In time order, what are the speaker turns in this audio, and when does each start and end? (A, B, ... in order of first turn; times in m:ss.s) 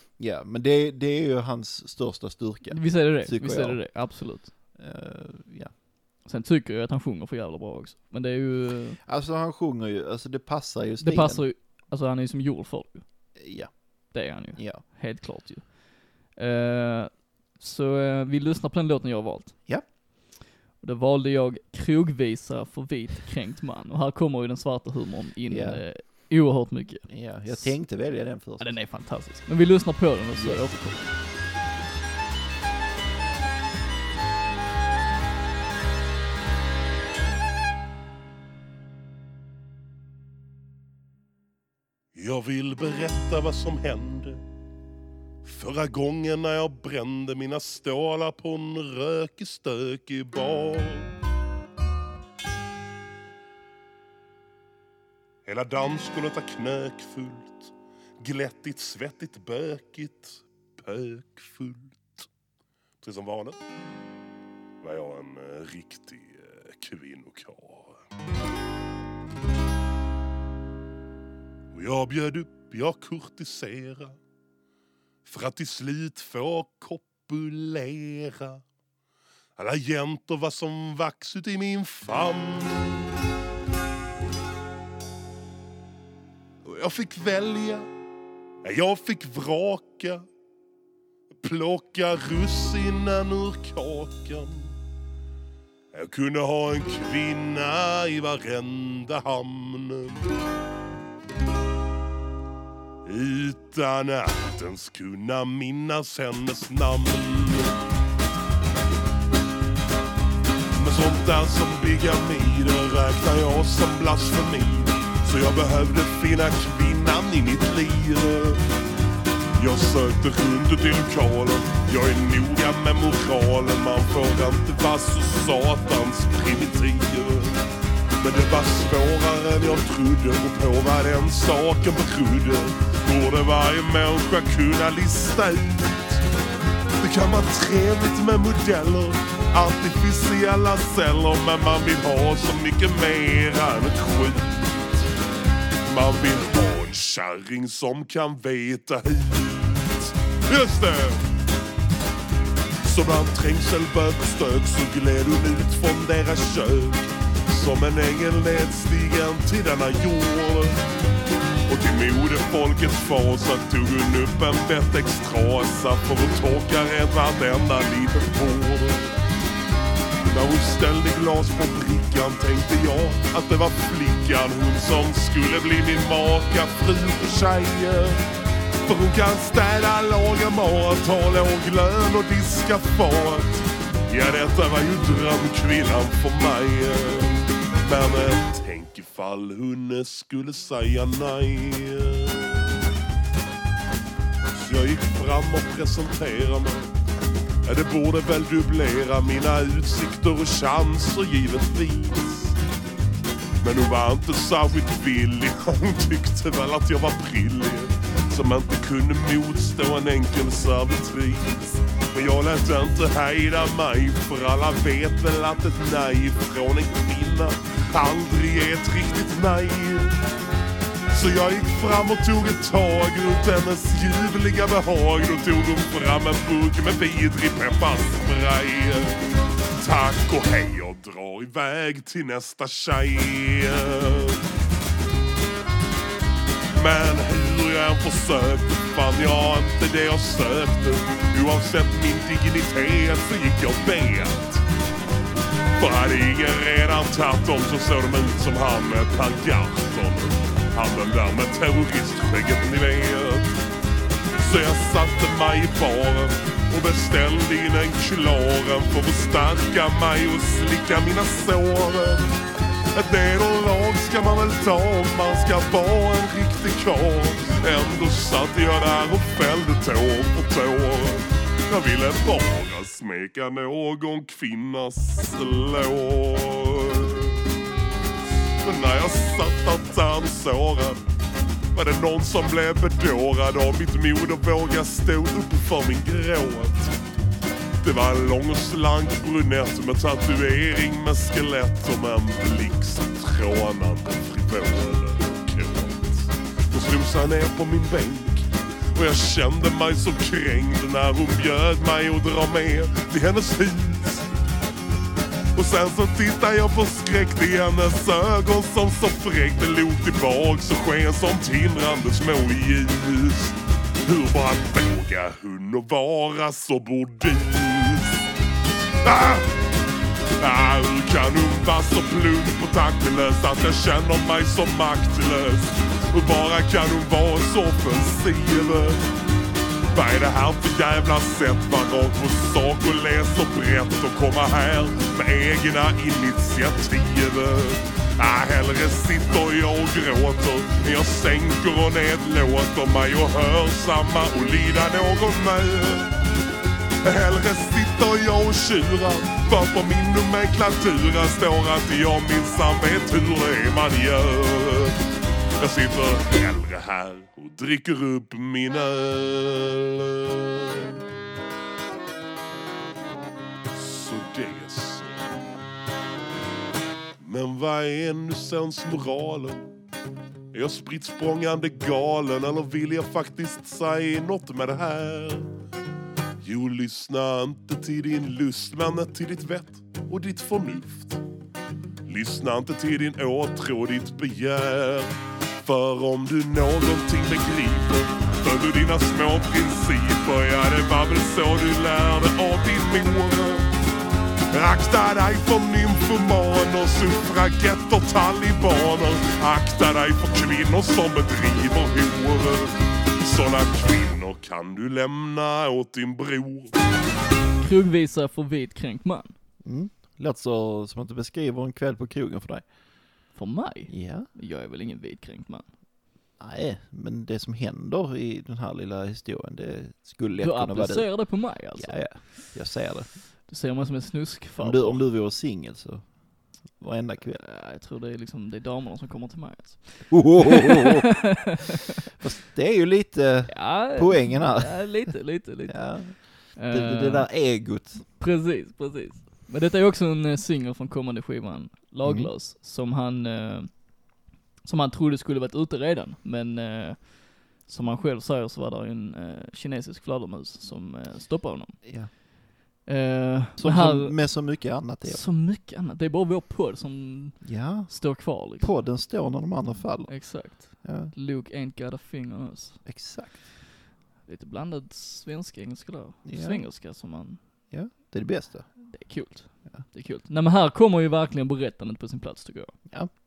0:00.2-0:04.0 A
0:02.7-0:04.5 B
0:04.7-0:05.7 A
0:06.2-0:09.0 B
0:09.0-0:11.4 A
0:11.0-0:13.0 B
0:13.4-0:14.8 A
0:14.1-0:19.6 B
0:20.8-0:27.8 B
0:25.5-0:25.8 A
0:27.1-0:28.7 A
0:28.6-0:31.1 B
0:42.1-0:44.4 C
0:45.4-0:51.1 C
0:55.4-1:02.3 C
1:03.0-1:03.6 C
1:04.8-1:08.0 C
1:11.7-1:14.2 C
1:15.2-1:18.6 C
1:19.6-1:23.2 C
1:26.6-1:27.9 C
1:28.6-1:30.2 C
1:31.3-1:34.7 C
1:35.9-1:40.2 C
1:43.0-1:47.7 C
1:50.8-1:58.6 C
1:59.6-2:07.6 C
2:08.2-2:16.2 C
2:17.0-2:25.1 C
2:25.8-2:31.3 C
2:32.8-2:40.8 C
2:41.7-2:49.2 C
2:50.2-2:58.2 C
2:58.8-3:12.8 C
3:14.5-3:16.9 C
3:17.6-3:22.6 C
3:23.6-3:40.1 C
3:41.1-3:49.2 C
3:49.8-3:54.4 C
3:56.7-4:04.6 C
4:05.8-4:13.6 C
4:14.4-4:22.3 C
4:22.9-4:37.4 C
4:38.6-4:41.0 C
4:41.7-4:46.9 C
4:47.8-5:04.3 C
5:05.5-5:18.3 C
5:19.0-5:19.5 C
5:20.4-5:29.0 C
5:29.9-5:46.1 C
5:47.0-5:55.0 C
5:55.6-6:00.8 C
6:03.7-6:05.3 C
6:07.2-6:09.7 C
6:10.5-6:15.5 C
6:16.4-6:21.2 C
6:22.0-6:33.7 C
6:34.5-6:46.7 C
6:47.6-6:49.3 B
6:49.6-6:52.6 A
6:53.3-6:55.7 B
6:53.9-6:54.3 A
6:56.4-7:03.1 A
7:00.4-7:02.5 B
7:03.5-7:05.0 B
7:04.6-7:07.4 A
7:07.4-7:11.6 B
7:10.1-7:11.1 A
7:12.2-7:15.1 A
7:13.5-7:17.3 B
7:15.7-7:18.0 A
7:18.0-7:23.9 B
7:22.0-7:22.3 A
7:24.6-7:31.8 B
7:31.8-7:32.1 A
7:32.8-7:34.4 B
7:33.6-7:35.2 A
7:35.0-7:38.7 B
7:37.4-7:41.1 A
7:40.1-7:42.8 B
7:42.8-7:43.5 A
7:44.2-7:47.4 B
7:46.2-7:46.6 A
7:47.7-7:48.8 A
7:48.8-7:52.8 B